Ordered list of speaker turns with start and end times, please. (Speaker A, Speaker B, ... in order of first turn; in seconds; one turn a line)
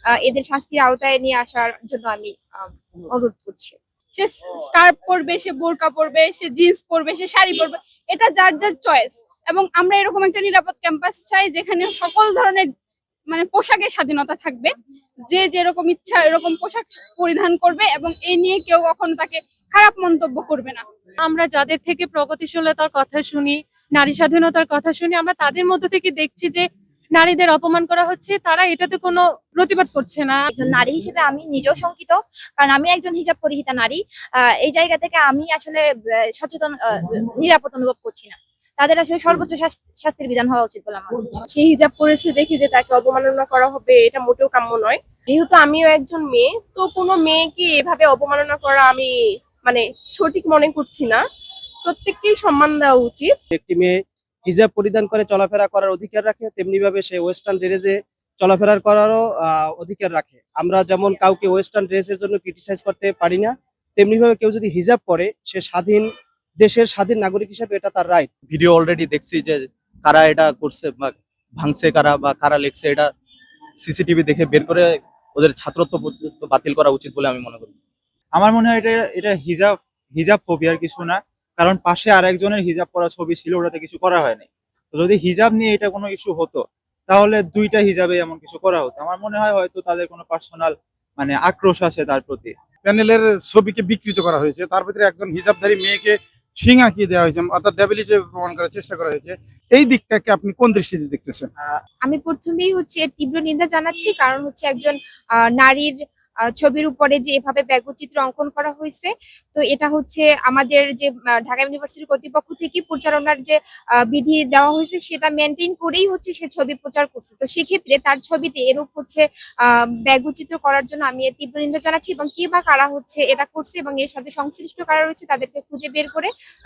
Speaker A: 0.2-3.8
Speaker B: 4.1-12.7
Speaker B: 13.3-14.7
Speaker B: 15.3-20.9
Speaker C: 21.2-30.4
Speaker D: 30.5-34.0
Speaker D: 34.6-41.4
Speaker E: 41.5-51.2
Speaker E: 51.8-53.3
Speaker F: 53.5-66.1
Speaker F: 66.6-68.3
Speaker G: 68.5-73.1
Speaker G: 73.8-77.7
Speaker H: 78.3-92.5
Speaker I: 92.8-101.5
Speaker A: 102.0-105.9
Speaker A: 106.5-126.3